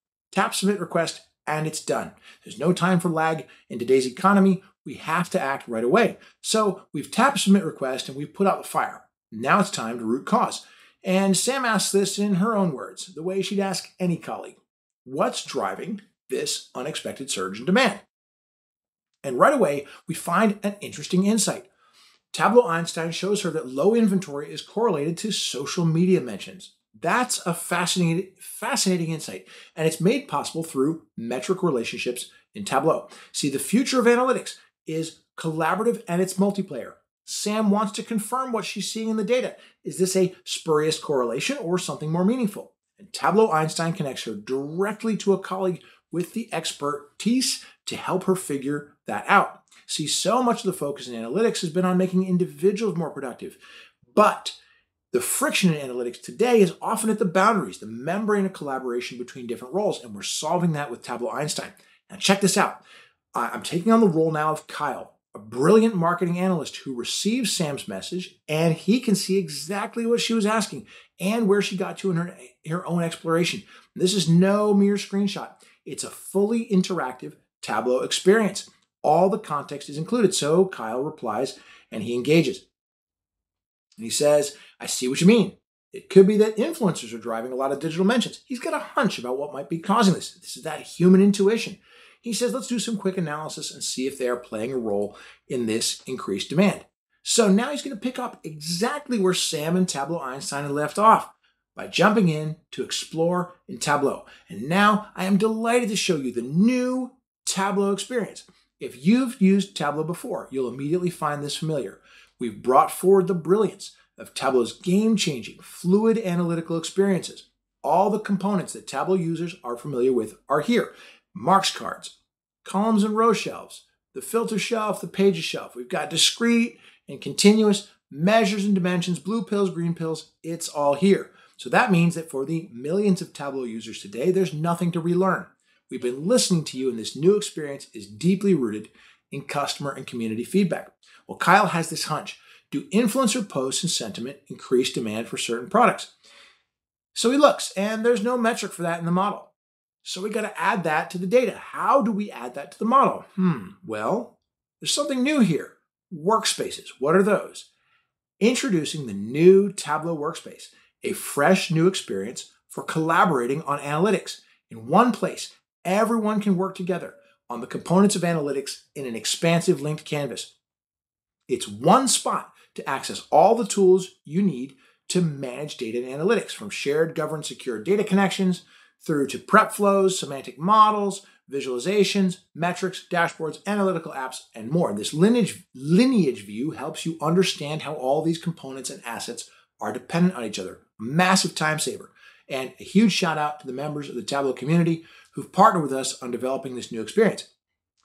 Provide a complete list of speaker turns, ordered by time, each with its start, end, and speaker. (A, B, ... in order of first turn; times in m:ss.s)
0:00.3-0:18.0 A
0:19.2-0:21.7 A
0:22.3-0:53.6 A
0:54.1-0:54.6 A
0:55.1-1:02.8 A
1:03.4-1:22.6 A
1:24.0-2:26.1 A
2:27.1-2:29.5 A
2:30.0-2:37.7 A
2:38.4-2:50.5 A
2:51.5-3:17.5 A